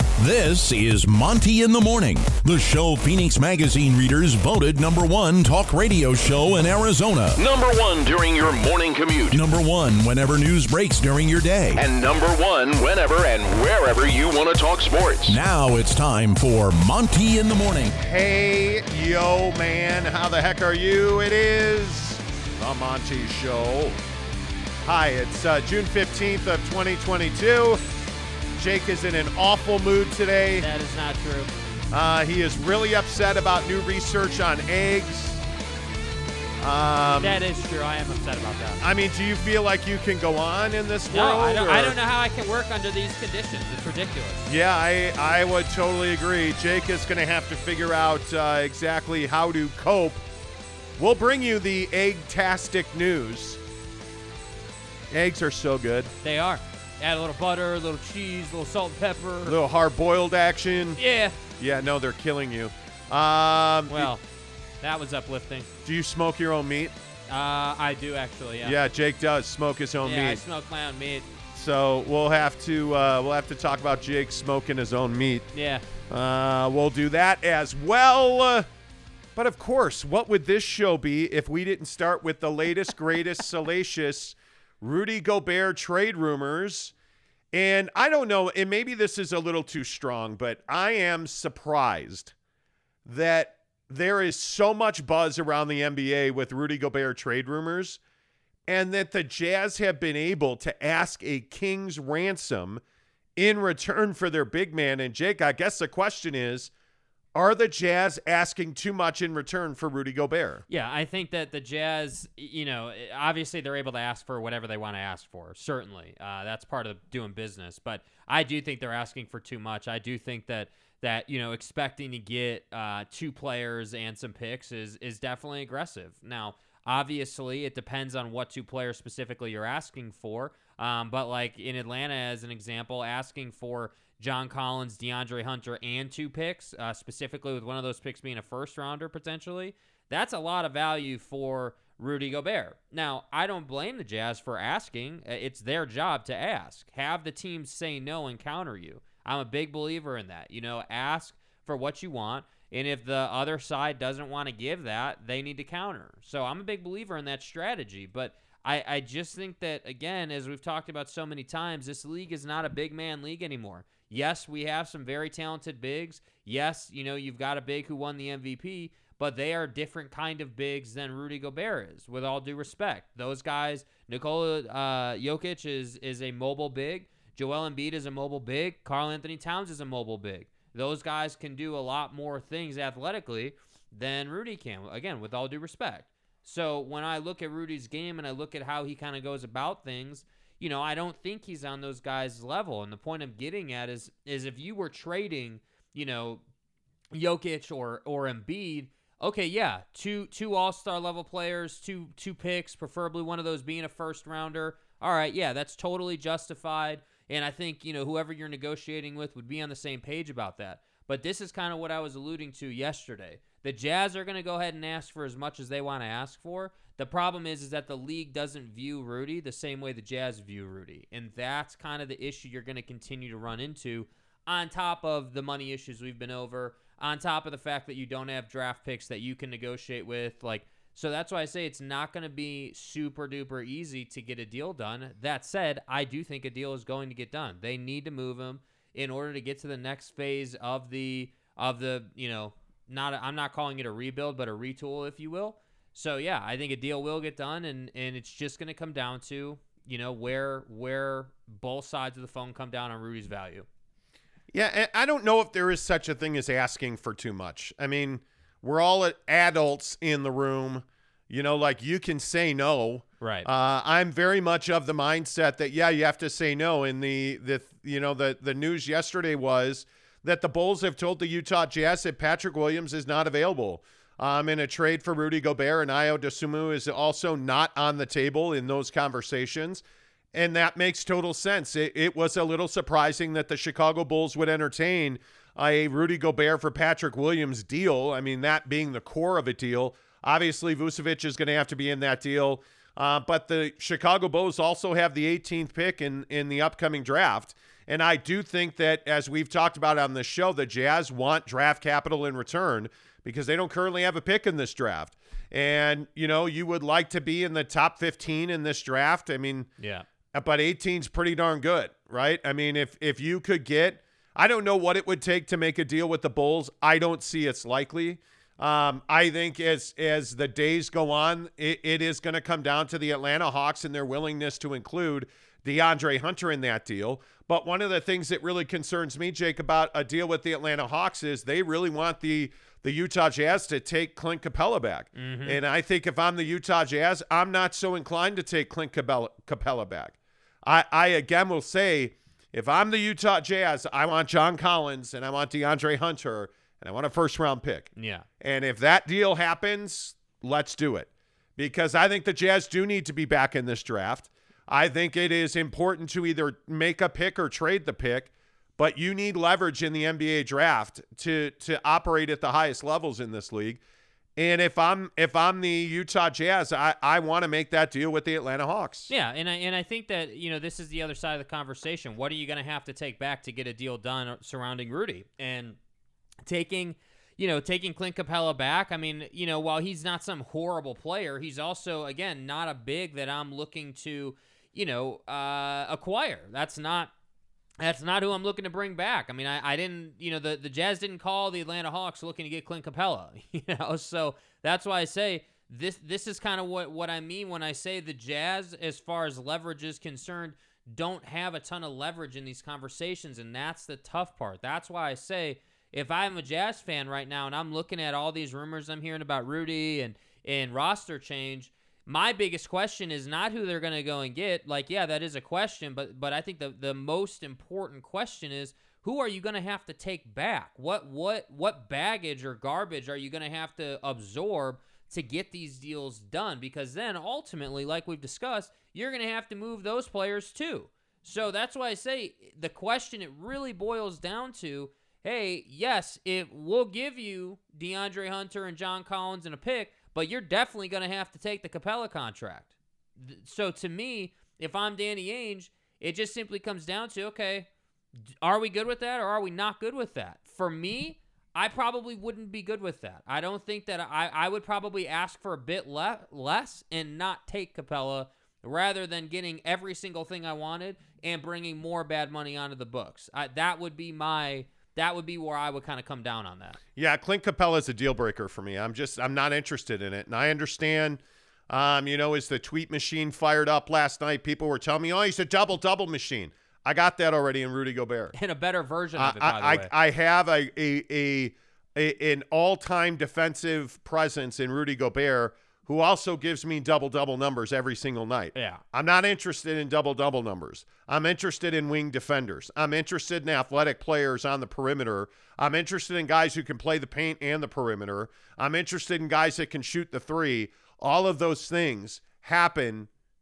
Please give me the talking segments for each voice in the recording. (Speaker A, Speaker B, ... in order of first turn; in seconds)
Speaker A: 0.2-7.4, 9.3-11.8, 15.3-17.9
Speaker B: 7.4-9.4, 11.8-15.4
Speaker C: 18.0-24.0, 24.8-27.8, 28.6-30.7, 31.9-35.4, 36.6-37.4, 38.8-42.0, 44.5-50.2, 51.0-53.6, 55.1-56.1, 59.5-61.0, 61.6-64.1, 65.8-66.9, 68.6-70.4, 71.5-75.5, 76.1-78.7, 79.4-86.9, 87.5-92.3, 93.1-98.0, 98.7-102.8, 103.4-106.7, 107.3-110.7, 254.5-279.8, 280.3-309.7, 310.3-363.8, 364.4-369.1, 467.0-478.3, 479.2-503.1
Speaker D: 30.6-31.5, 37.2-38.8, 41.1-44.5, 56.2-59.5, 61.0-61.4, 63.9-64.2, 64.8-65.7, 67.3-68.8, 70.0-71.3, 75.5-75.8, 110.7-196.4, 197.1-253.7, 263.2-263.5, 309.8-310.1, 335.2-335.6, 348.0-348.3, 369.1-375.8, 376.4-387.1, 387.8-447.7, 448.4-466.8, 478.4-479.9, 488.6-488.8